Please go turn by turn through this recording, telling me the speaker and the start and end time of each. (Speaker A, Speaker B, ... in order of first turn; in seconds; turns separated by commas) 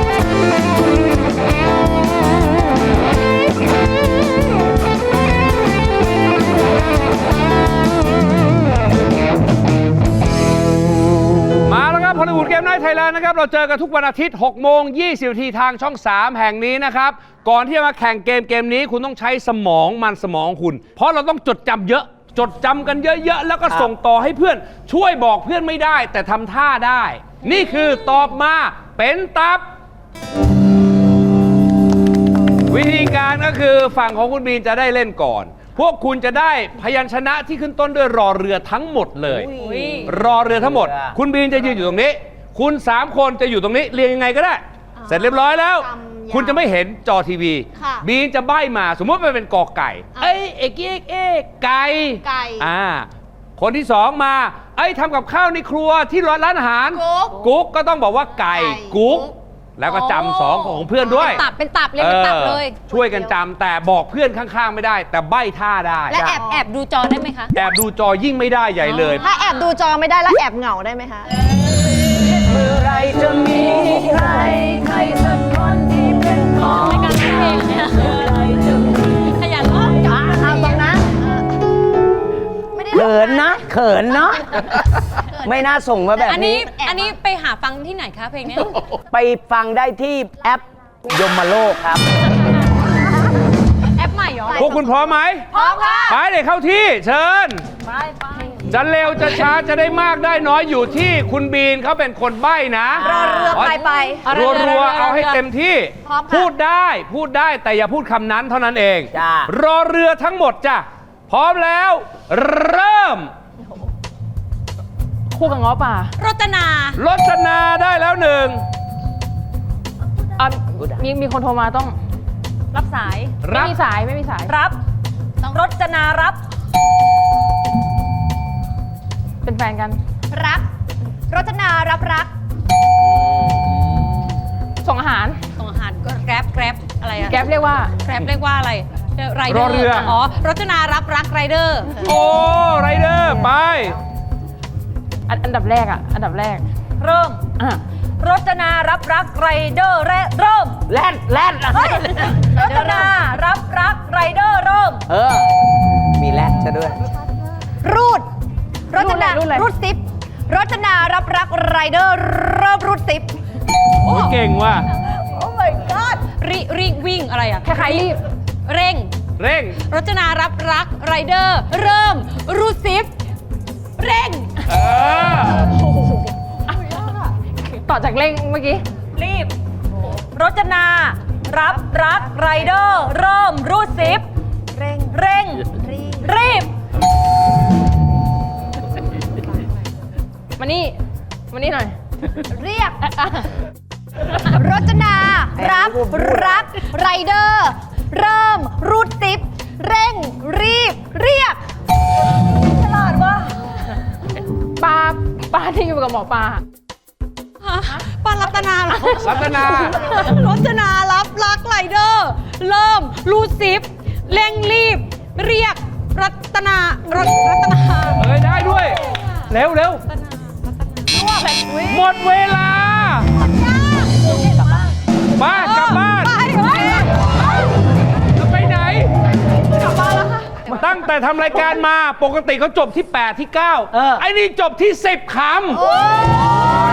Speaker A: 11.6-29.6, Speaker A: 32.7-39.5, Speaker B: 39.2-41.2, Speaker C: 39.6-40.0, Speaker A: 40.0-61.4, Speaker D: 45.0-46.6, Speaker D: 47.8-48.0, Speaker D: 52.2-52.7, Speaker D: 56.9-57.4, Speaker D: 58.5-59.3, Speaker C: 59.8-62.9, Speaker D: 61.0-61.4, Speaker A: 62.0-66.2, Speaker D: 62.9-63.3, Speaker D: 66.1-66.6, Speaker C: 66.2-67.5, Speaker A: 67.5-69.3, Speaker C: 68.8-69.7, Speaker D: 69.2-71.3, Speaker B: 72.3-77.5, Speaker C: 76.7-80.3, Speaker D: 80.0-81.3, Speaker B: 80.1-81.0, Speaker D: 82.7-83.6, Speaker B: 82.9-84.8, Speaker B: 85.3-86.7, Speaker C: 86.2-88.8, Speaker D: 86.7-87.1, Speaker B: 89.1-92.0, Speaker C: 93.9-94.7, Speaker D: 94.5-94.8, Speaker A: 94.6-95.5, Speaker C: 95.5-96.1, Speaker D: 95.5-96.2, Speaker A: 96.1-97.7, Speaker C: 97.9-98.6, Speaker A: 98.6-113.3, Speaker B: 103.0-103.7, Speaker D: 103.0-104.3, Speaker C: 104.2-105.4, Speaker D: 106.0-106.5, Speaker B: 109.1-109.5, Speaker E: 115.3-116.1, Speaker C: 116.2-117.0, Speaker A: 117.0-118.6, Speaker E: 120.4-122.0, Speaker B: 120.8-121.0, Speaker C: 122.7-123.4, Speaker A: 123.4-123.8, Speaker E: 123.4-124.5, Speaker C: 124.5-124.8, Speaker C: 125.5-126.4, Speaker E: 129.4-130.0, Speaker D: 130.3-130.7, Speaker D: 131.3-132.3, Speaker E: 134.8-135.4, Speaker C: 135.6-142.0, Speaker E: 137.2-137.9, Speaker A: 139.5-140.1, Speaker E: 139.9-140.2, Speaker A: 142.0-144.0, Speaker E: 145.3-146.6, Speaker C: 147.0-147.4, Speaker E: 147.6-147.8, Speaker C: 148.2-150.8, Speaker B: 150.9-153.2, Speaker C: 151.8-155.0, Speaker D: 152.6-153.1, Speaker B: 155.1-155.5, Speaker B: 156.1-157.0, Speaker D: 157.8-158.3, Speaker D: 158.9-163.4, Speaker E: 158.9-159.7, Speaker A: 164.0-164.8, Speaker C: 164.1-164.3, Speaker D: 165.2-166.2, Speaker C: 166.3-168.1, Speaker E: 167.6-168.2, Speaker C: 168.7-169.1, Speaker A: 169.4-169.8, Speaker C: 169.8-173.1, Speaker C: 174.0-174.5, Speaker A: 174.7-175.7, Speaker E: 177.7-178.8, Speaker C: 179.1-179.5, Speaker C: 180.3-184.3, Speaker D: 182.3-182.7, Speaker D: 184.7-186.3, Speaker C: 185.1-185.7, Speaker C: 186.2-186.7, Speaker E: 190.6-191.0, Speaker E: 191.5-191.9, Speaker D: 192.5-193.0, Speaker E: 193.0-193.3, Speaker D: 194.4-201.6, Speaker B: 195.5-196.7, Speaker D: 202.4-203.6, Speaker E: 204.8-206.6, Speaker C: 207.6-218.2, Speaker A: 209.2-210.0, Speaker A: 218.2-220.0, Speaker D: 221.1-222.0, Speaker A: 221.9-223.3, Speaker D: 223.6-224.2, Speaker A: 225.3-226.3, Speaker C: 225.5-225.9, Speaker D: 225.8-227.3, Speaker C: 226.5-227.0, Speaker A: 228.3-229.1, Speaker D: 229.7-230.6, Speaker A: 230.6-235.8, Speaker B: 233.9-234.2, Speaker D: 235.7-236.6